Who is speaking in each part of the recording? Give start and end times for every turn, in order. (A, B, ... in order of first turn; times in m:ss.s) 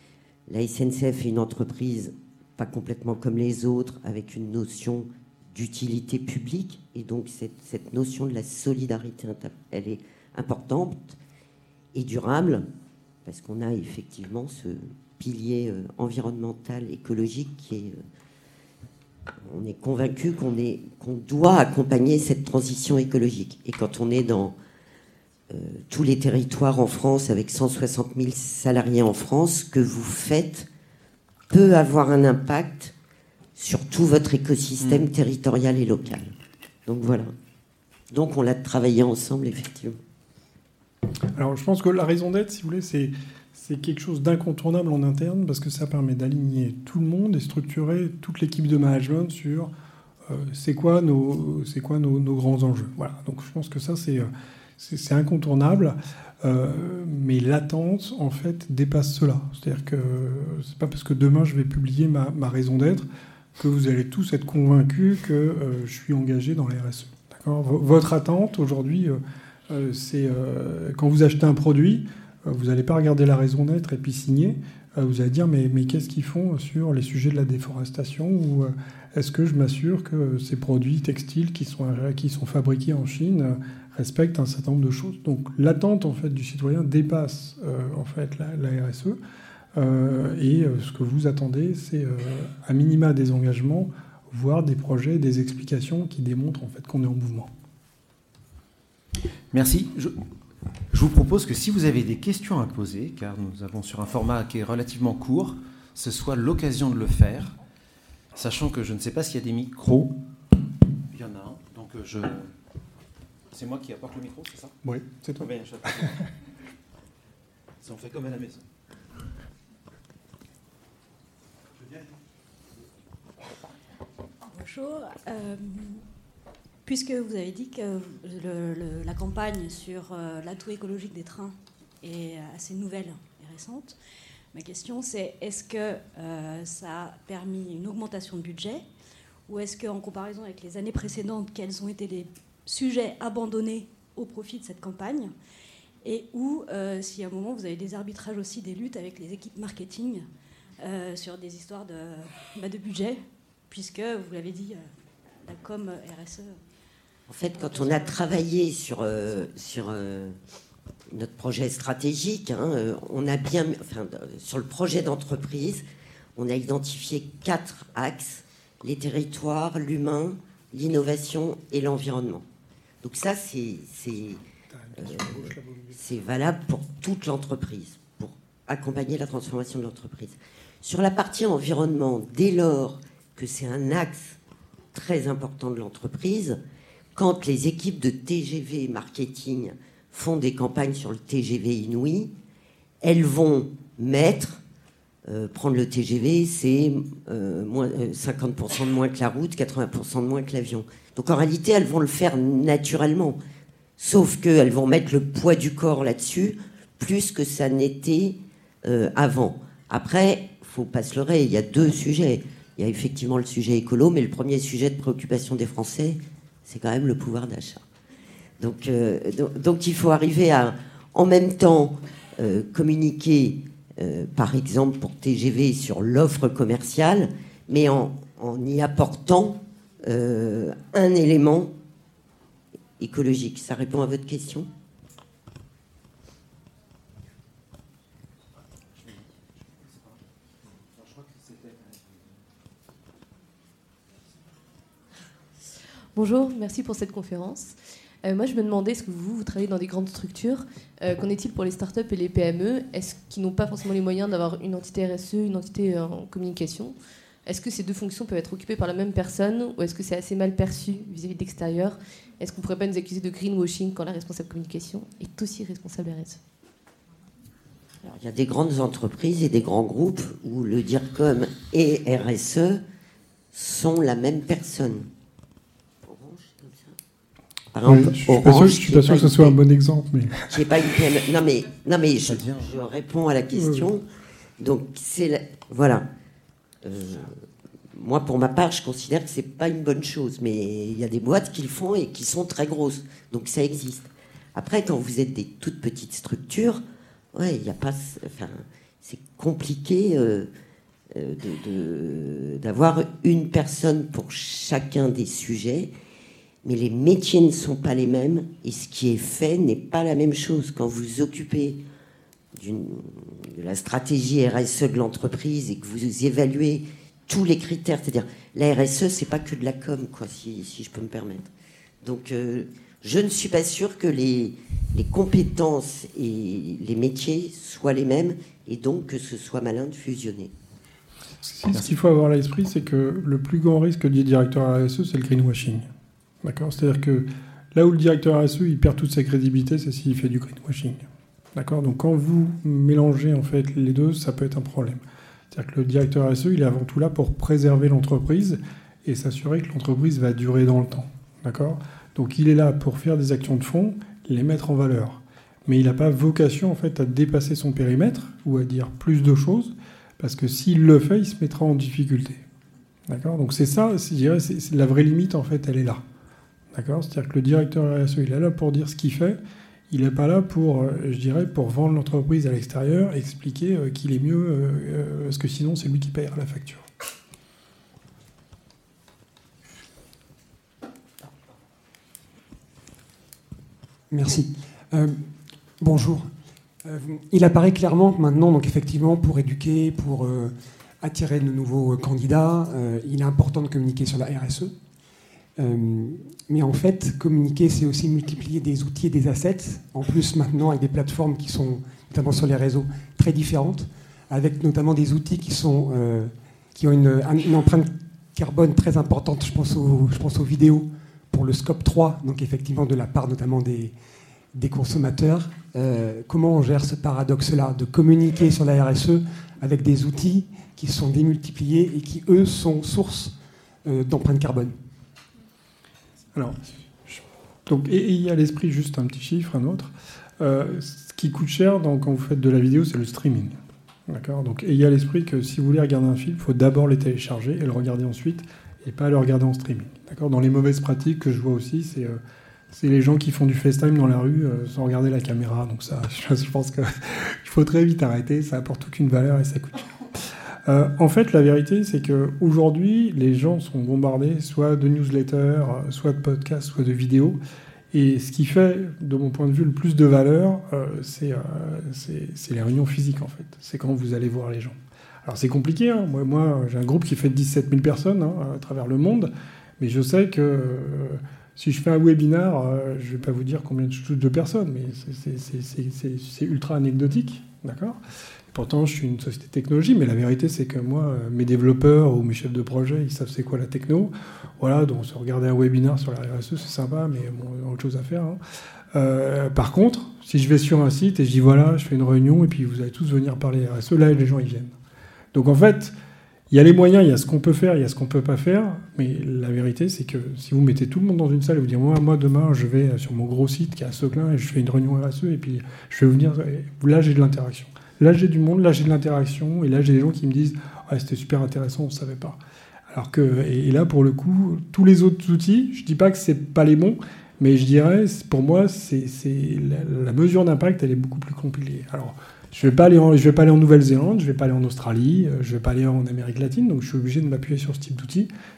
0:00.5-0:11.2 A
0:11.9-0:12.6 A
0:13.2-0:18.0 A
0:19.4-0:24.6 A
0:25.5-0:30.7 A
0:31.5-0:32.9 A
0:33.6-0:36.3 A
0:34.8-0:35.1 B
0:36.8-0:37.3 A
0:38.1-0:40.0 A
0:41.3-0:49.7 C
0:50.3-1:03.0 C
1:03.6-1:29.2 C
1:29.7-1:37.5 C
1:39.5-1:40.2 B
1:40.9-1:47.6 B
1:48.3-1:50.2 B
1:51.1-1:52.5 B
1:53.5-1:54.8 B
1:54.8-1:55.5 C
1:55.4-1:56.2 B
1:56.0-1:56.2 C
1:57.8-1:58.6 B
2:04.5-2:06.0 D
2:06.8-2:14.0 D
2:14.5-2:18.8 D
2:19.5-2:25.3 D
2:26.0-2:30.2 D
2:30.8-2:34.8 D
2:35.4-2:36.6 D
2:37.3-2:40.4 A
2:37.5-2:38.2 D
2:41.1-2:45.8 A
2:46.4-2:52.4 A
2:53.0-2:54.4 A
2:54.7-2:56.0 C
2:55.0-3:04.4 A
3:04.9-3:06.6 A
3:07.1-3:12.3 A
3:13.0-3:14.6 A
3:15.2-3:23.4 A
3:24.0-3:37.8 A
3:38.6-3:51.7 A
3:53.0-3:54.7 A
4:01.1-4:01.7 B
4:06.1-4:26.4 E
4:28.0-4:32.8 A
4:33.5-4:35.1 A
4:36.0-4:37.0 A
4:37.7-4:39.5 A
4:37.9-4:40.6 C
4:40.5-4:44.0 A
4:42.3-4:42.6 B
4:43.5-4:43.9 C
4:44.6-4:46.0 A
4:46.8-4:56.8 A
4:57.3-5:00.5 A
5:01.1-5:05.9 A
5:06.6-5:11.8 A
5:12.6-5:21.5 A
5:22.0-5:30.5 A
5:31.4-5:35.9 C
5:36.4-6:02.4 C
6:03.1-6:06.0 C
6:06.7-6:09.4 C
6:09.9-6:16.8 C
6:24.1-6:25.2 F
6:25.8-6:26.3 F
6:26.8-6:34.7 F
6:35.6-6:54.0 F
6:54.5-7:04.7 F
7:06.3-7:13.6 C
7:14.1-7:22.2 C
7:22.7-7:29.9 C
7:30.6-7:37.4 C
7:37.9-7:58.0 C
7:58.5-8:08.4 C
8:08.9-8:14.8 C
8:15.3-8:15.9 C
8:16.5-8:48.3 C